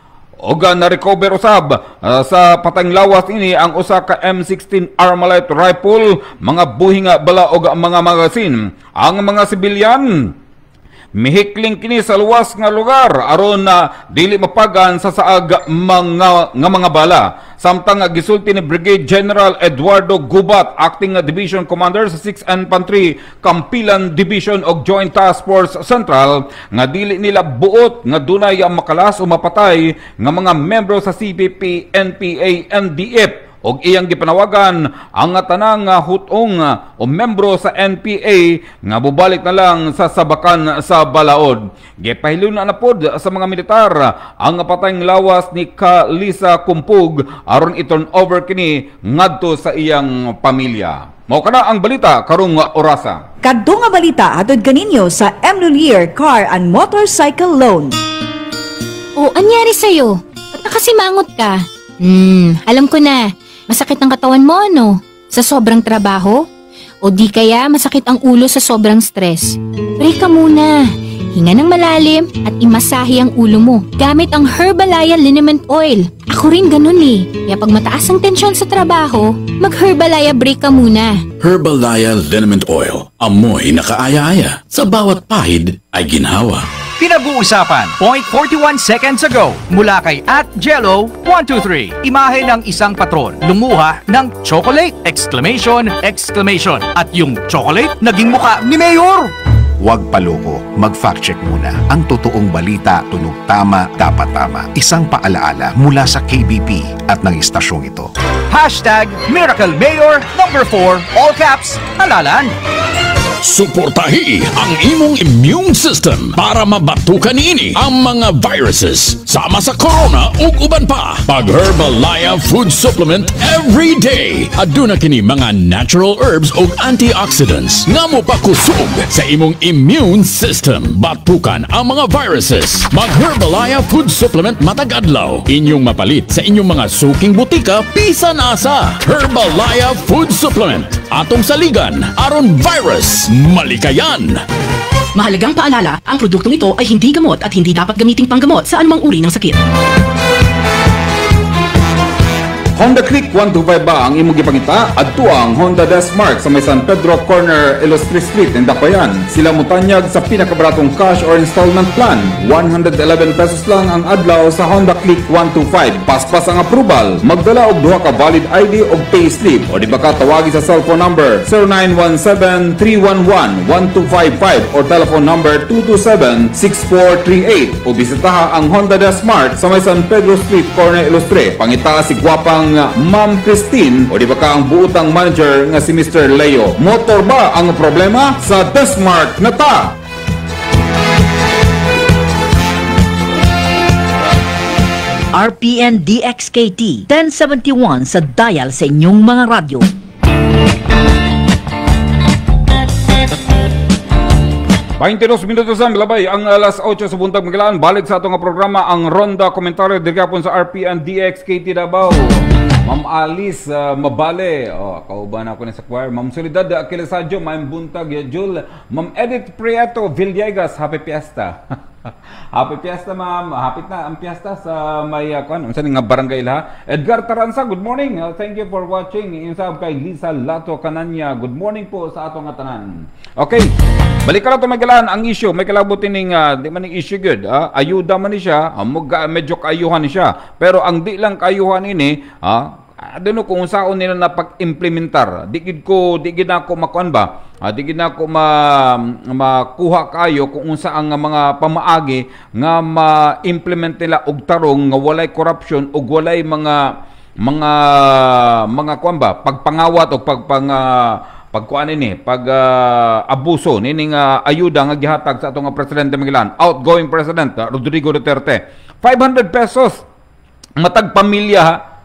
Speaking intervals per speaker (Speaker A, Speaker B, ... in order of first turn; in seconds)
Speaker A: 0.5-10.3, 11.2-53.2, 152.8-189.9, 205.0-212.3, 212.8-221.6, 222.6-233.7, 234.3-256.8, 257.4-270.0, 270.8-271.8
Speaker B: 53.4-58.0
Speaker C: 59.2-66.5, 67.0-81.2
Speaker D: 81.4-86.7, 113.4-144.4
Speaker E: 87.0-99.3, 108.5-112.5
Speaker F: 99.8-108.1
Speaker G: 145.2-149.6
Speaker H: 195.3-199.9